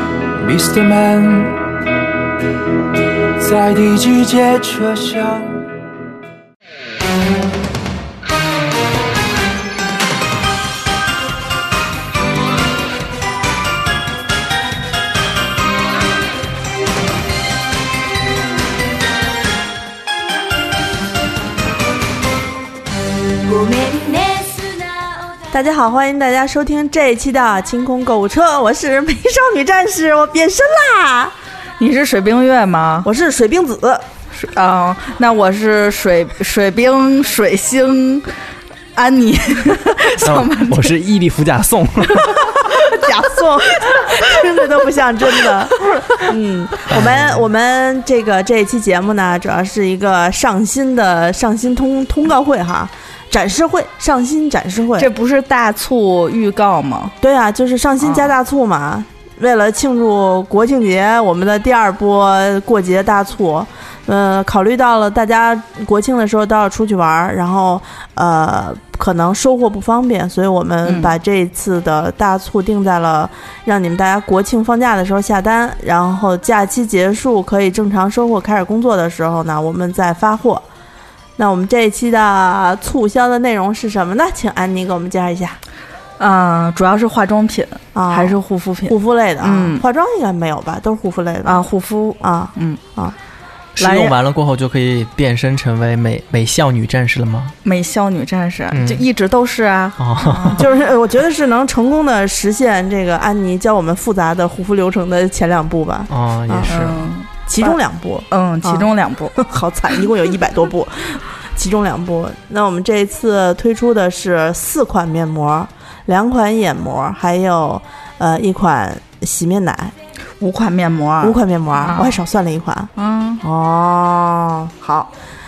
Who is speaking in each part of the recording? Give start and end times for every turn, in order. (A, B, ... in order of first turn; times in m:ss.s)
0:00.4-0:01.6 A
0:03.4-0:05.5 A
0:25.5-0:31.3 B
0:31.8-0:33.1 C
0:33.0-0:34.1 B
0:34.3-0:38.3 C
0:39.0-0:40.9 C
0:40.2-0:42.5 D
0:42.4-0:44.4 C
0:42.8-0:55.1 B
0:46.9-0:47.5 D
0:55.0-0:57.1 C
0:57.2-1:20.6 B
0:58.0-0:58.3 C
1:10.9-1:11.2 C
1:21.4-1:25.6 B
1:26.2-1:29.8 C
1:28.0-1:31.6 B
1:31.4-1:32.8 C
1:32.2-1:33.2 B
1:33.8-1:37.6 D
1:33.8-1:34.2 C
1:37.6-1:40.6 C
1:38.7-1:39.1 D
1:40.0-1:40.6 D
1:40.6-1:46.8 B
1:46.1-1:47.0 D
1:46.7-1:47.8 C
1:47.5-1:59.9 B
1:48.3-1:49.4 C
2:00.4-2:02.2 C
2:01.2-2:05.1 B
2:03.0-2:03.4 C